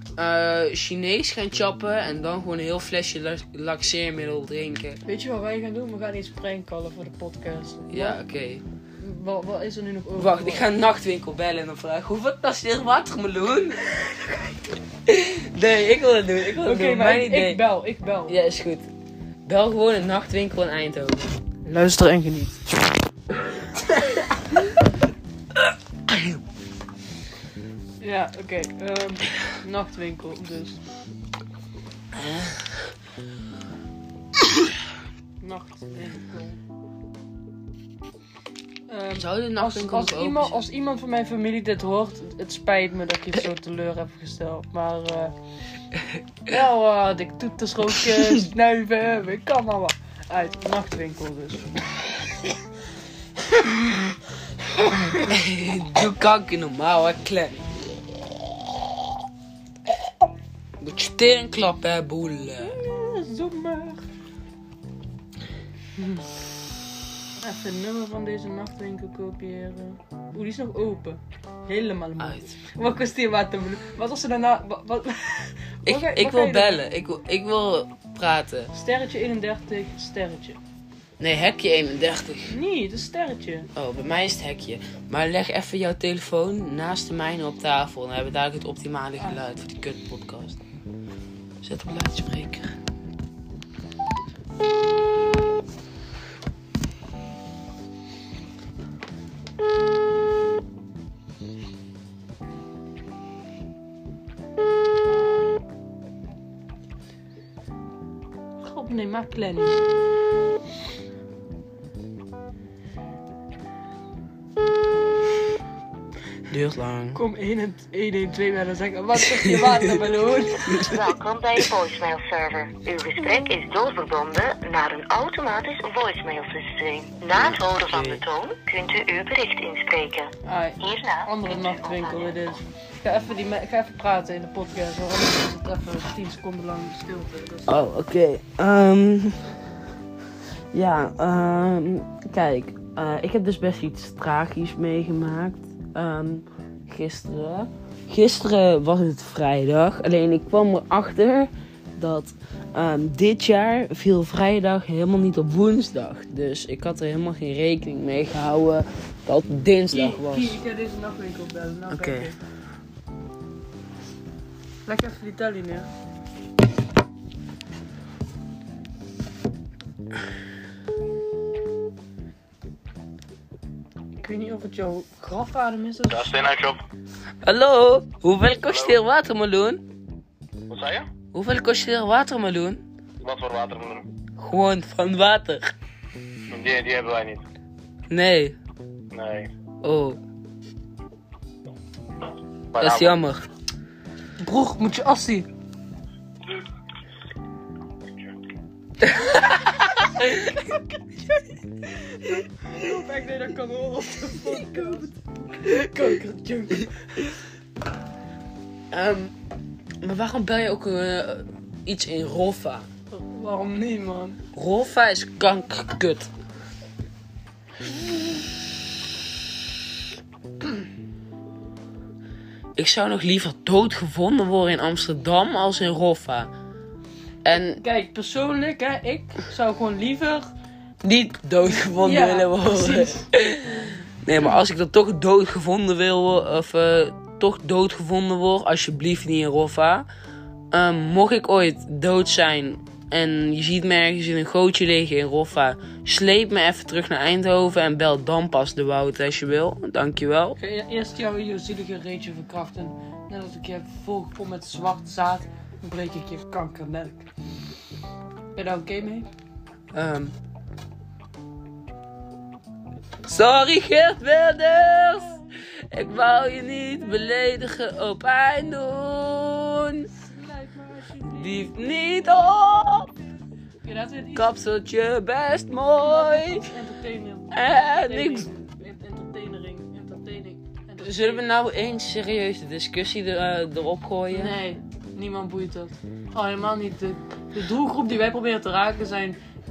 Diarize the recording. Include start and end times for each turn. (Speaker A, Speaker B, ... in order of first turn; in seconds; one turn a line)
Speaker A: 0.1-5.0
Speaker B: 5.0-8.2
Speaker A: 7.9-8.6
Speaker B: 9.0-10.7
Speaker A: 10.2-14.5
Speaker A: 15.1-17.6
Speaker B: 16.6-18.4
Speaker A: 18.3-18.9
Speaker A: 19.4-21.4
Speaker B: 21.6-22.6
Speaker A: 26.1-26.4
Speaker B: 28.0-30.8
Speaker A: 32.1-32.7
Speaker B: 35.4-36.6
Speaker B: 38.9-45.3
Speaker A: 39.1-40.6
Speaker B: 46.5-51.7
Speaker A: 48.1-48.5
Speaker A: 55.2-57.7
Speaker A: 60.8-62.8
Speaker B: 62.6-64.0
Speaker B: 66.0-66.2
Speaker B: 67.4-76.8
Speaker A: 72.2-72.5
Speaker A: 75.8-78.7
Speaker B: 78.7-80.6
Speaker A: 81.2-82.5
Speaker B: 82.5-83.7
Speaker A: 83.7-90.6
Speaker A: 91.6-92.8
Speaker B: 108.6-109.8
Speaker A: 116.5-117.2
Speaker B: 117.1-120.8
Speaker C: 120.6-132.4
Speaker A: 120.7-121.0
Speaker A: 127.3-128.2
Speaker B: 130.4-137.8
Speaker A: 137.7-139.5
Speaker A: 140.7-160.6
Speaker B: 159.9-162.4
Speaker A: 161.9-162.3
Speaker B: 164.8-165.9
Speaker B: 174.2-176.3
Speaker D: 176.1-176.8
Speaker A: 177.4-179.8
Speaker D: 178.7-179.0
Speaker D: 180.7-181.1
Speaker A: 181.3-182.8
Speaker D: 183.2-184.0
Speaker A: 184.4-185.7
Speaker D: 186.5-187.4
Speaker A: 188.1-188.6
Speaker D: 189.1-189.5
Speaker A: 189.8-190.2
Speaker D: 192.7-193.1
Speaker A: 192.8-193.4
Speaker B: 194.4-195.5
Speaker B: 202.1-206.9
Speaker A: 208.9-209.3
Speaker A: 210.0-212.9
Speaker B: 213.1-214.4
Speaker A: 214.5-216.3
Speaker A: 222.8-226.5
Speaker A: 227.4-227.8
Speaker B: 227.8-230.5
Speaker A: 231.0-240.1
Speaker B: 231.9-233.3
Speaker A: 240.7-250.6
Speaker B: 250.6-257.3
Speaker B: 258.5-259.3
Speaker A: 259.9-260.3
Speaker A: 263.2-270.1
Speaker B: 270.1-272.1
Speaker A: 271.2-273.1
Speaker B: 273.8-274.5
Speaker A: 274.3-276.7
Speaker B: 276.0-281.4
Speaker A: 277.5-278.5
Speaker A: 281.0-284.6
Speaker B: 284.3-289.4